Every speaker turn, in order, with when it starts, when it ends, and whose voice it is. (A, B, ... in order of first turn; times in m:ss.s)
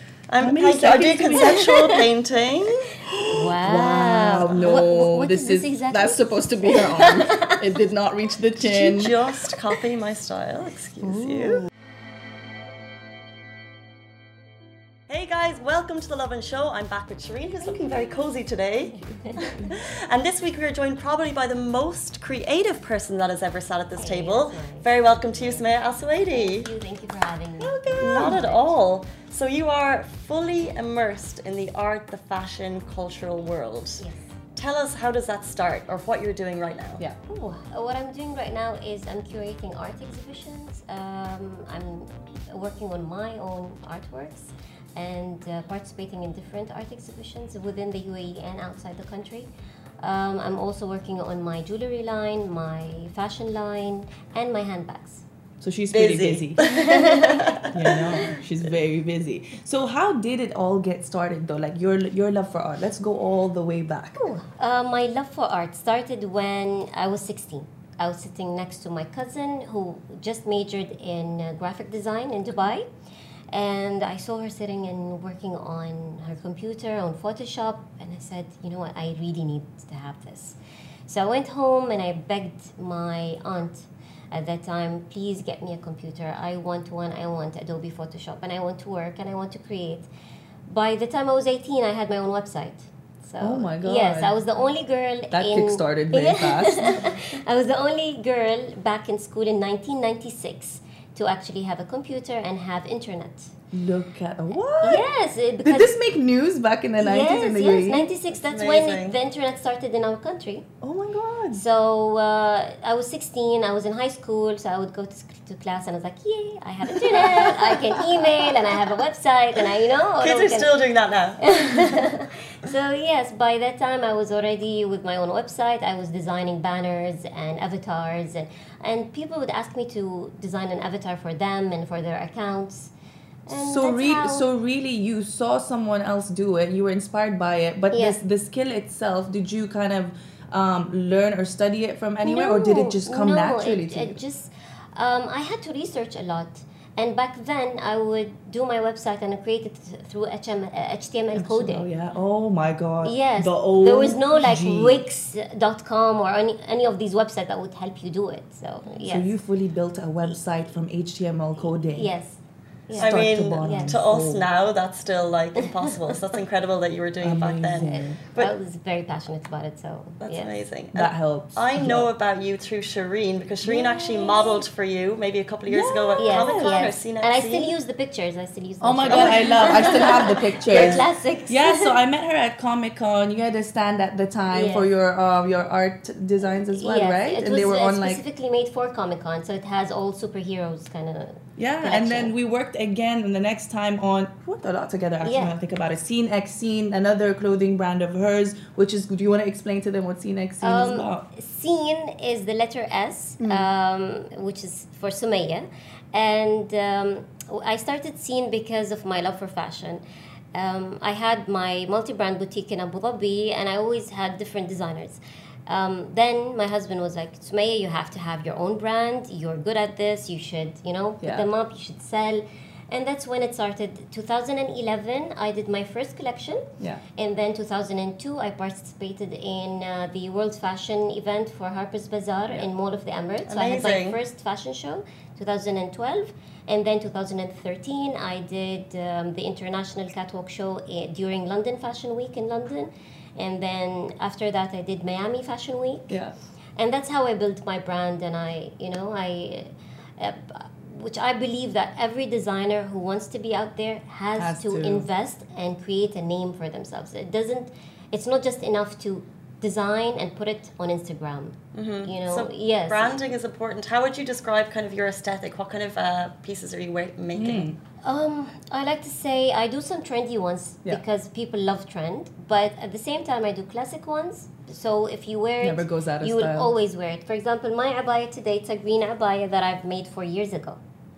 0:00.3-0:03.0 A
0:00.4-0:01.9 B
0:03.1-0:09.3 B
0:03.3-0:07.6 C
0:08.6-0:11.7 A
0:15.1-0:26.7 A
0:19.1-0:19.5 C
0:19.3-0:19.7 B
0:24.0-0:28.7 C
0:27.6-0:28.4 B
0:28.0-0:34.0 A
0:34.6-0:37.0 A
0:37.3-0:49.5 C
0:50.0-0:55.2 C
0:55.6-0:56.6 B
0:55.9-0:58.3 A
0:56.6-0:57.7 C
0:57.7-1:04.2 B
1:04.2-1:12.9 C
1:13.5-1:30.1 C
1:30.7-1:43.5 C
1:33.4-1:34.4 B
1:35.3-1:37.0 B
1:43.7-1:45.0 B
1:44.8-1:46.0 C
1:45.6-1:48.1 B
1:47.0-1:50.7 C
1:48.3-1:49.2 A
1:50.8-1:51.6 B
1:51.5-2:00.8 C
1:57.2-1:57.6 A
2:00.2-2:02.1 A
2:01.4-2:12.9 C
2:13.5-2:14.5 C
2:13.5-2:24.2 B
2:17.9-2:18.2 C
2:22.2-2:31.9 C
2:31.3-2:35.0 B
2:33.0-2:39.4 C
2:39.0-2:42.1 B
2:41.8-2:44.0 C
2:43.0-2:44.5 B
2:43.0-2:48.6 A
2:47.2-2:48.2 B
2:48.4-2:50.5 C
2:50.2-2:57.8 A
2:50.9-2:52.1 B
2:53.6-2:54.6 B
2:55.7-2:56.8 B
2:56.2-3:02.0 C
2:58.8-3:08.2 B
2:59.1-3:01.0 A
3:04.5-3:04.9 C
3:06.7-3:12.3 C
3:11.6-3:21.3 B
3:15.2-3:15.5 C
3:20.6-3:30.0 C
3:23.4-3:23.7 B
3:30.5-4:06.2 C
3:41.2-3:41.5 B
3:53.5-3:54.2 A
4:06.1-4:06.3 B
4:06.8-4:23.3 C
4:14.4-4:15.1 B
4:21.7-4:27.7 A
4:27.3-4:27.8 B
4:28.0-4:40.8 C
4:35.6-4:36.8 B